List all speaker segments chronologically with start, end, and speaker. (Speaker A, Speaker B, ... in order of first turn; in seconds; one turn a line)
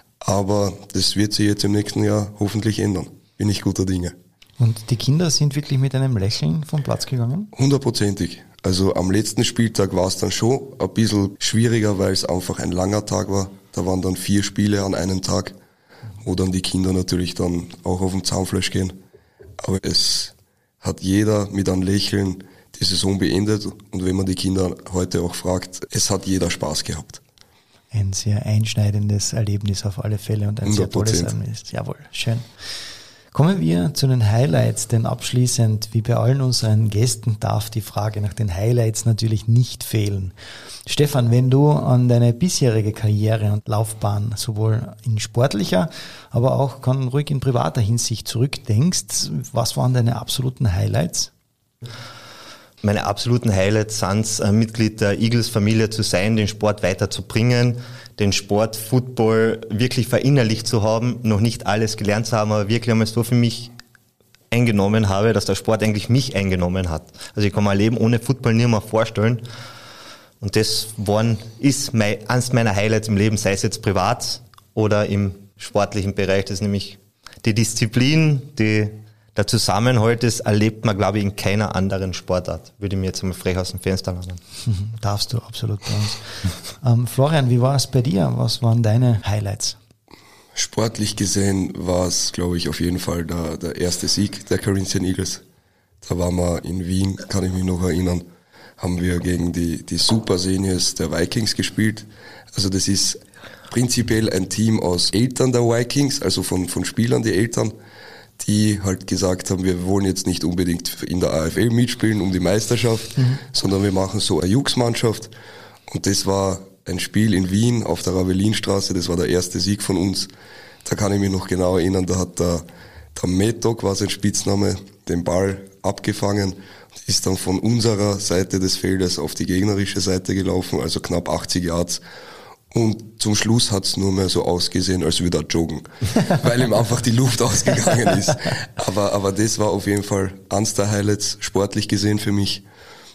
Speaker A: 0.2-4.2
Speaker B: 4.6-7.5
Speaker A: 7.5-15.6
Speaker A: 16.2-19.0
Speaker A: 19.6-27.2
Speaker B: 27.9-32.5
Speaker A: 30.6-31.3
Speaker B: 33.3-40.4
Speaker B: 40.9-51.3
Speaker C: 52.8-63.7
Speaker C: 64.5-69.4
Speaker C: 70.4-84.4
Speaker B: 84.7-89.8
Speaker A: 90.5-95.4
Speaker A: 96.0-98.3
Speaker A: 98.8-107.7
Speaker A: 108.4-115.3
Speaker A: 115.9-120.3
Speaker A: 120.8-132.0
Speaker A: 132.7-142.7